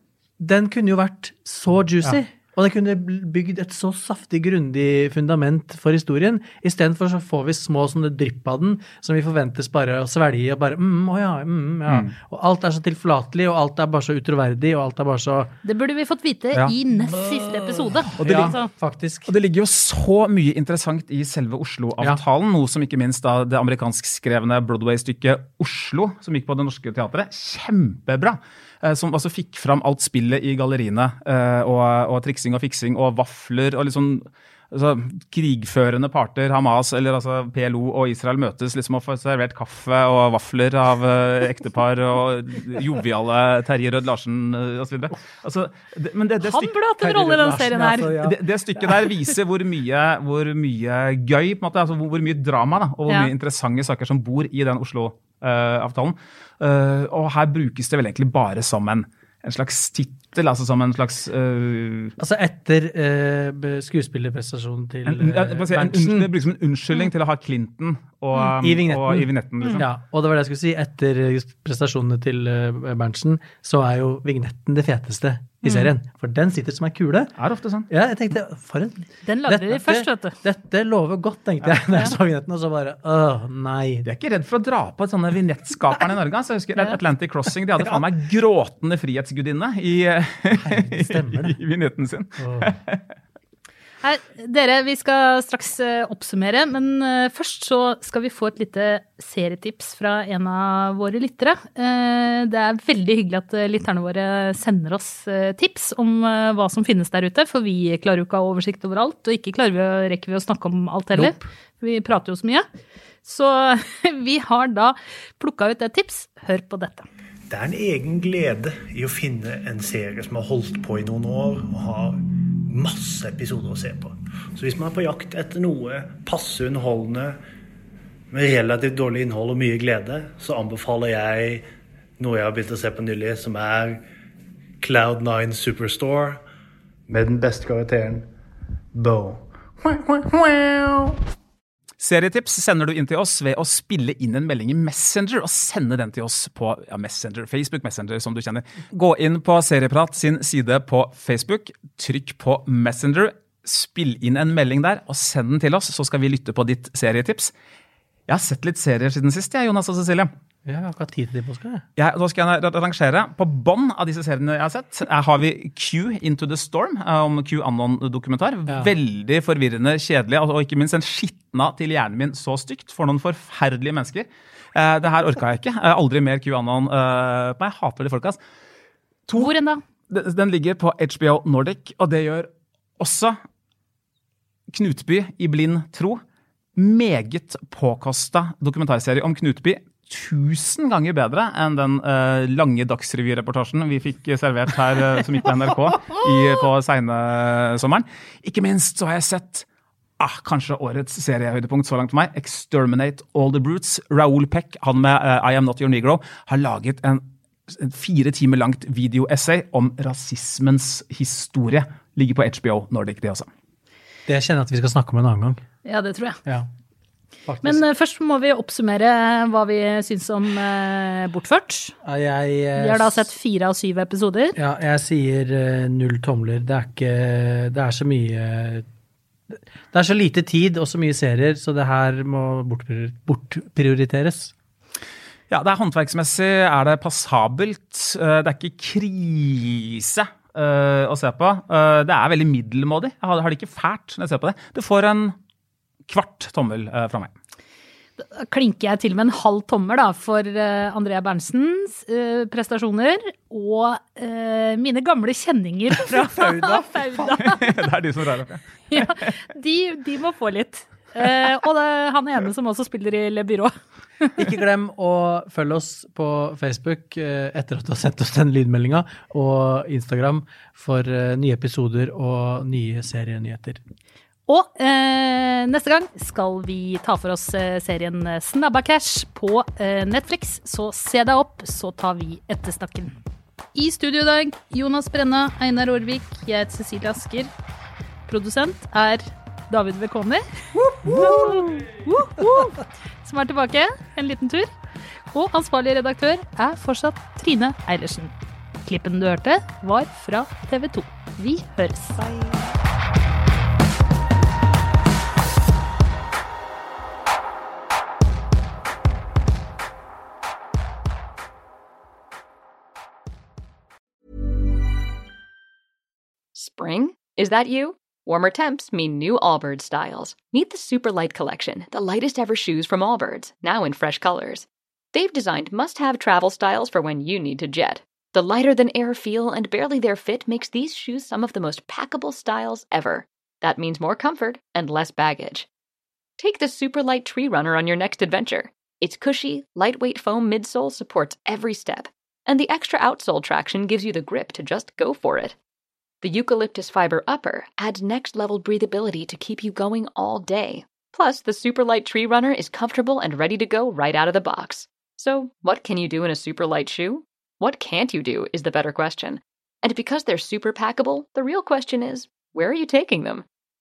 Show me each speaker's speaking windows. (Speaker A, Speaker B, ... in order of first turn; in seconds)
Speaker A: 0.4-15.5, 18.2-19.3, 47.0-48.5, 62.2-66.3, 68.6-77.3, 77.9-84.1, 90.5-91.6, 92.4-92.7, 160.7-161.8, 214.3-215.6, 217.5-217.8, 222.0-223.3, 224.6-228.8, 229.5-234.5, 256.3-257.0, 264.4-273.8, 290.9-291.8
Speaker B: 11.9-12.1, 18.2-18.6, 19.3-46.8, 48.0-62.1, 65.1-69.9, 77.4-77.9, 84.0-93.0, 140.5-141.0, 142.0-157.5, 158.3-160.3, 162.0-178.4, 179.3-179.6, 180.1-182.5, 183.0-183.4, 184.7-186.2, 186.8-199.7, 200.2-213.5, 235.5-245.4, 246.1-247.3, 257.2-259.3
Speaker C: 15.7-18.7, 46.4-48.2, 79.3-80.4, 94.0-112.7, 113.2-117.1, 179.4-179.8, 215.8-216.4, 217.6-221.9, 222.8-224.6, 248.2-257.8, 258.9-264.3, 274.5-283.1, 283.7-287.5, 288.3-294.7, 295.3-298.3, 298.9-302.2
Speaker D: 117.5-127.4, 128.3-131.7, 132.2-134.0, 134.8-136.4, 137.1-138.3, 138.9-140.3
Speaker E: 316.5-335.7, 336.4-345.6, 346.2-363.5